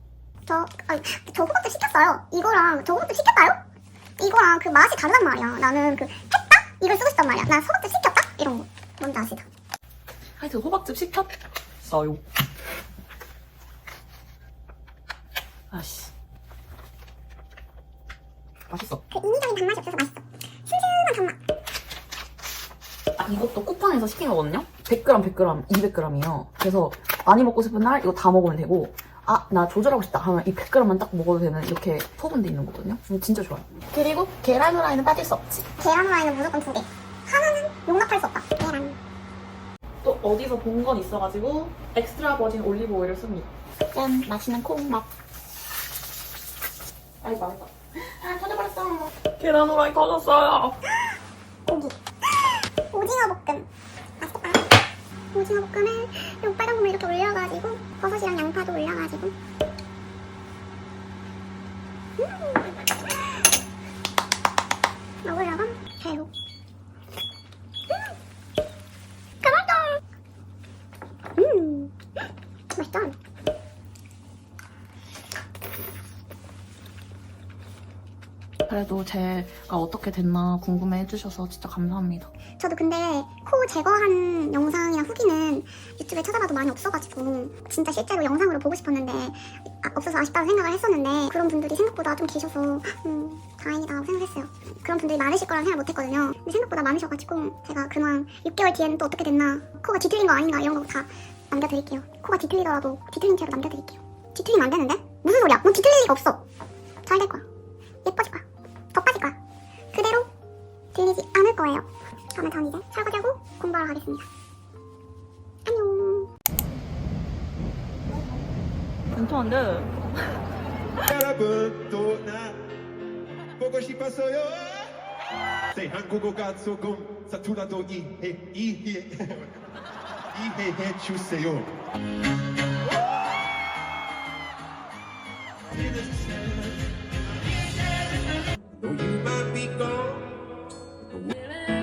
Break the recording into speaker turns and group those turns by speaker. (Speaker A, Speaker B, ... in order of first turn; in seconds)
Speaker A: 0.5-3.6, 4.2-9.5, 19.1-21.4, 35.8-39.0, 51.6-53.7, 54.2-54.7, 55.3-59.4, 62.2-62.7, 65.2-66.3, 69.4-70.0, 71.4-72.0, 72.7-73.2, 82.6-106.5, 107.0-107.5, 108.0-109.4, 109.9-110.3, 110.9-114.3, 115.7-116.3
Speaker B: 10.4-12.2, 15.7-16.1, 18.7-19.0, 23.2-35.7, 40.0-45.1, 47.2-50.8, 78.7-82.3, 119.1-119.9
Speaker C: 121.1-122.6, 123.6-124.9, 125.7-129.4, 130.3-131.7, 135.8-136.8, 138.8-140.3